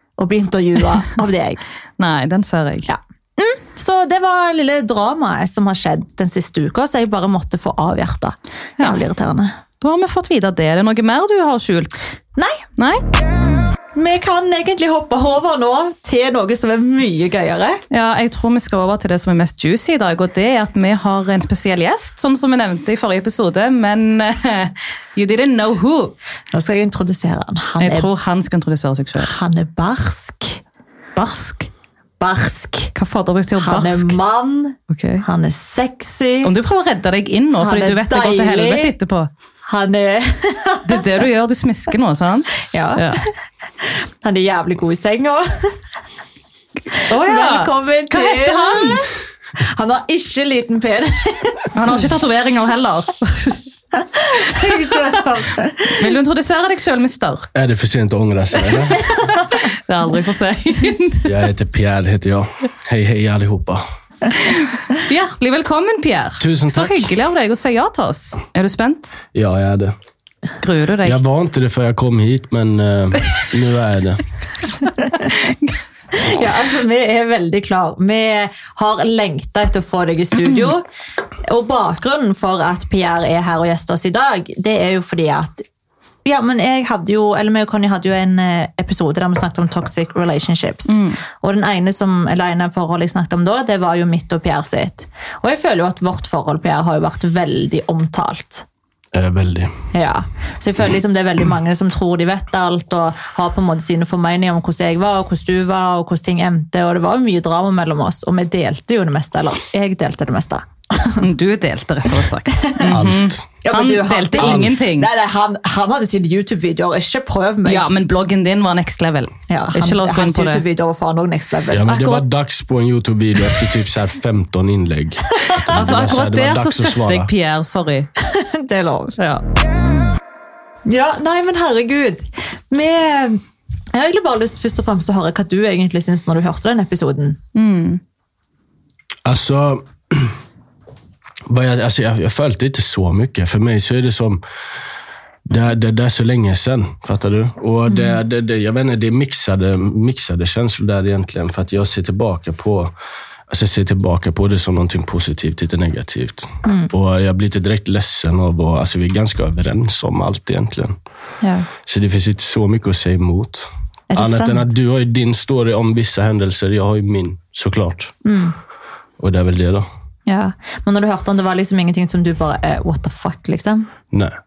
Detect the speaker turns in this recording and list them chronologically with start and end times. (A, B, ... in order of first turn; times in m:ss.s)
0:00.2-0:01.6 A
0:02.0-0:02.9 B
0:02.8-0:09.5 A
0:09.8-0:12.1 B
0:12.4-0:12.6 A
0:12.8-0:13.0 B
0:13.9-0:17.8 A
0:17.9-0:26.1 B
0:26.5-0:28.1 A
0:27.8-0:29.3 B
0:29.2-0:30.6 A
0:31.1-0:31.7 B
0:32.2-0:32.9 A
0:32.9-0:34.2 B
0:33.6-0:36.5 A
0:34.9-0:35.2 B
0:36.4-0:39.3 B
0:37.6-0:38.9 A
0:39.7-0:41.0 A
0:40.8-0:43.2 B
0:42.7-0:43.3 A
0:43.8-0:45.8 A
0:46.9-0:52.0 A
0:47.1-0:49.0 B
0:51.7-0:53.6 B
0:54.0-0:56.0 A
0:54.4-0:55.1 B
0:55.9-0:57.5 B
0:57.5-0:59.0 C
0:59.1-0:59.4 A
0:59.5-1:01.4 B
1:01.2-1:03.8 C
1:04.3-1:09.1 B
1:06.4-1:07.1 C
1:09.3-1:09.9 C
1:10.6-1:11.2 B
1:11.0-1:14.2 C
1:16.1-1:20.8 A
1:21.4-1:25.6 A
1:26.2-1:38.6 A
1:30.9-1:31.2 B
1:39.1-1:39.7 C
1:39.9-1:51.2 A
1:51.2-1:55.1 B
1:52.8-1:53.4 C
1:53.6-1:57.9 A
1:54.4-1:54.8 C
1:57.6-2:00.6 B
1:59.5-2:01.9 A
2:01.7-2:07.3 C
2:01.9-2:02.2 B
2:05.7-2:08.1 B
2:08.2-2:09.2 A
2:09.2-2:09.4 B
2:10.8-2:13.4 A
2:13.9-2:17.4 A
2:17.5-2:18.0 B
2:19.2-2:20.3 C
2:21.5-2:24.4 C
2:25.4-2:32.9 C
2:27.9-2:28.2 A
2:33.5-2:41.0 C
2:36.6-2:36.9 A
2:41.4-2:41.7 A
2:41.8-2:48.1 C
2:44.1-2:44.7 A
2:48.2-2:48.6 A
2:49.2-2:49.9 C
2:50.3-2:53.9 A